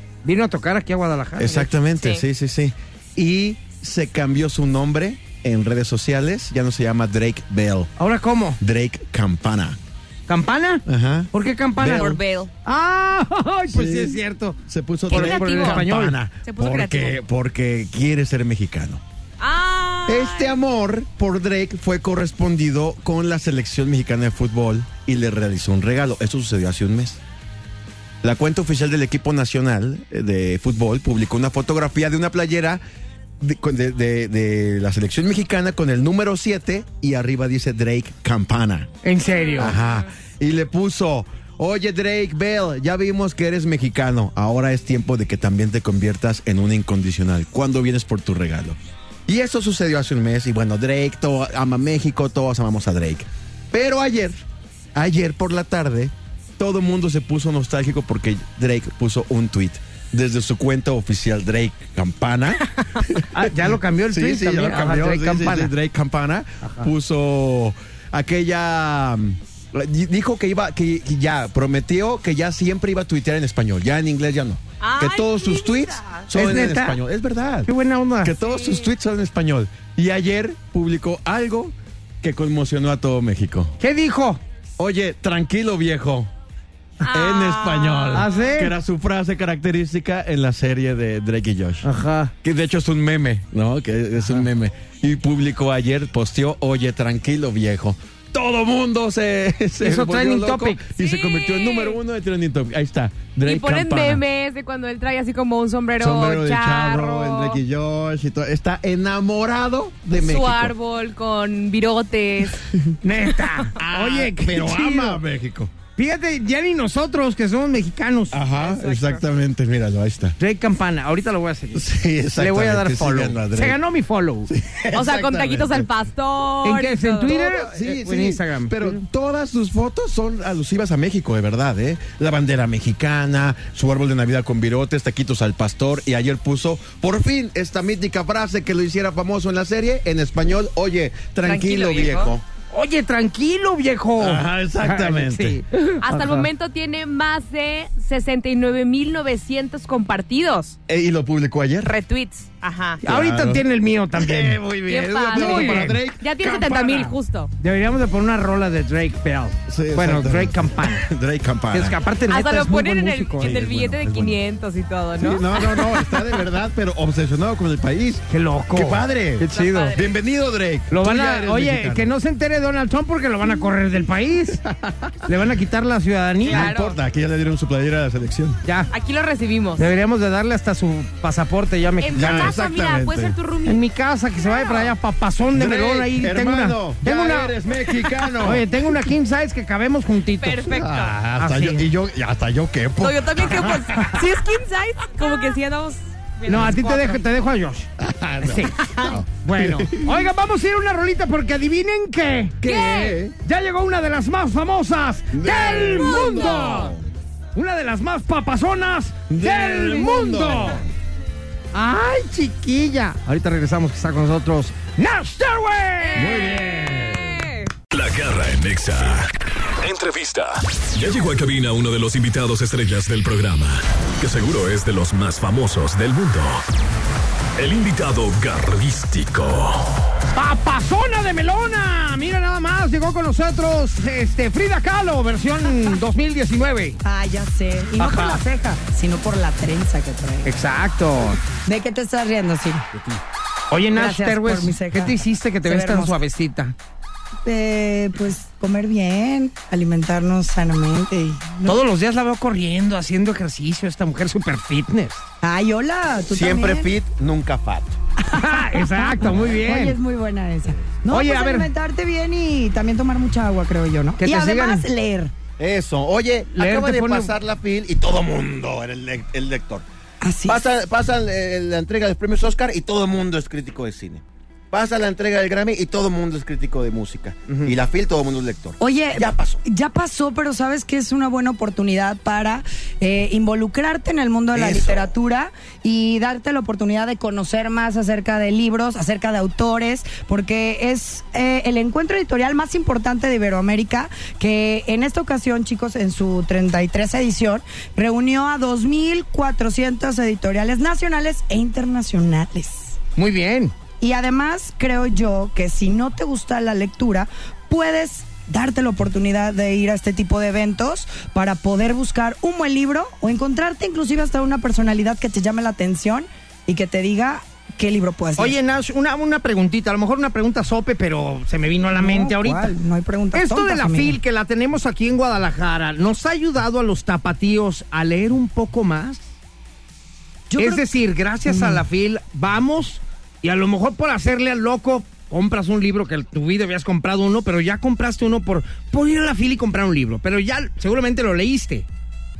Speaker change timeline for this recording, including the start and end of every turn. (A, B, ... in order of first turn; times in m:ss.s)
0:00.2-0:01.7 A
0:01.4-0:07.9 B
0:02.0-0:02.2 C
0:08.0-0:08.6 A
0:08.6-0:09.8 B
0:10.3-0:14.6 A
0:10.8-0:12.2 B
0:11.8-0:12.5 C
0:13.7-0:19.0 B
0:15.1-0:15.8 C
0:15.1-0:16.2 A
0:16.4-0:17.2 C
0:19.4-0:20.6 C
0:20.1-0:27.2 B
0:28.2-0:32.8 B
0:33.4-0:38.9 B
0:39.0-0:39.8 A
0:39.3-0:40.1 C
0:39.6-0:54.4 B
0:54.9-1:23.7 B
1:03.3-1:05.7 A
1:14.8-1:16.3 C
1:16.3-1:17.0 A
1:17.7-1:18.4 A
1:18.4-1:18.9 C
1:23.8-1:24.4 A
1:24.8-1:26.3 B
1:27.0-1:28.5 C
1:27.1-1:31.9 B
1:28.1-1:28.7 A
1:31.8-1:32.3 A
1:32.4-1:44.2 B
1:39.8-1:40.8 A
1:41.0-1:42.0 C
1:43.4-1:47.6 C
1:46.0-1:50.7 B
1:50.1-1:52.6 C
1:53.0-1:55.2 A
1:53.8-1:55.7 B
1:56.0-1:58.4 A
1:58.3-2:00.4 B
1:58.5-1:59.2 C
2:00.4-2:04.5 A
2:01.7-2:03.8 B
2:04.5-2:05.9 B
2:04.9-2:07.4 C
2:06.6-2:09.0 A
2:07.3-2:22.4 B
2:21.4-2:22.3 C
2:22.7-2:26.5 A
2:24.2-2:25.6 B
2:26.0-2:30.8 C
2:30.9-2:31.9 B
2:31.8-2:33.0 C
2:33.0-2:37.1 B
2:33.0-2:34.6 A
2:34.8-2:37.5 C
2:35.3-2:36.0 A
2:37.6-2:41.1 A
2:39.7-2:42.0 B
2:41.7-2:43.5 A
2:42.3-2:46.1 C
2:43.4-2:44.4 B
2:45.2-2:52.1 B
2:48.3-2:50.0 A
2:49.5-2:50.0 C
2:50.9-2:54.6 A
2:54.6-2:55.3 B
2:55.2-2:56.7 A
2:56.4-2:58.6 B
2:56.4-2:57.0 C
2:58.9-2:59.9 C
2:59.8-3:02.5 A
3:02.0-3:03.8 C
3:02.1-3:03.4 B
3:03.6-3:07.6 A
3:04.4-3:04.9 C
3:05.5-3:08.7 B
3:08.2-3:10.8 A
3:10.4-3:11.1 C
3:10.7-3:14.2 B
3:11.4-3:11.9 A
3:13.0-3:17.2 C
3:16.5-3:17.9 A
3:18.0-3:20.3 B
3:18.4-3:18.8 A
3:19.3-3:22.7 A
3:22.6-3:23.4 B
3:22.6-3:23.2 C
3:23.4-3:26.9 A
3:25.3-3:27.0 B
3:26.0-3:26.5 C
3:27.5-3:30.8 A
3:29.3-3:30.8 B
3:31.7-3:36.4 A
3:36.0-3:37.7 C
3:36.1-3:37.4 B
3:37.9-3:46.6 D
3:47.6-3:50.0 D
3:50.3-3:57.0 A
3:57.0-4:00.5 E
3:58.0-3:58.4 A
4:00.4-4:01.4 A
4:01.5-4:02.9 E
4:03.7-4:06.7 A
4:03.9-4:06.2 E
4:07.4-4:11.8 E
4:11.6-4:15.2 A
4:15.4-4:16.9 E
4:16.3-4:18.0 B
4:18.2-4:25.3 E
4:18.3-4:20.0 A
4:21.1-4:21.7 A
4:24.2-4:24.9 A
4:25.6-4:29.8 B
4:26.5-4:27.3 A
4:30.2-4:30.6 E
4:30.4-4:39.6 B
4:38.8-5:03.0 E
4:44.5-4:45.1 B
5:03.2-5:03.7 A
5:04.0-5:18.6 E
5:18.4-5:22.7 A
5:21.9-5:24.2 E
5:23.3-5:29.2 A
5:30.5-5:30.8 E
5:30.6-5:41.8 A
5:31.4-5:31.8 E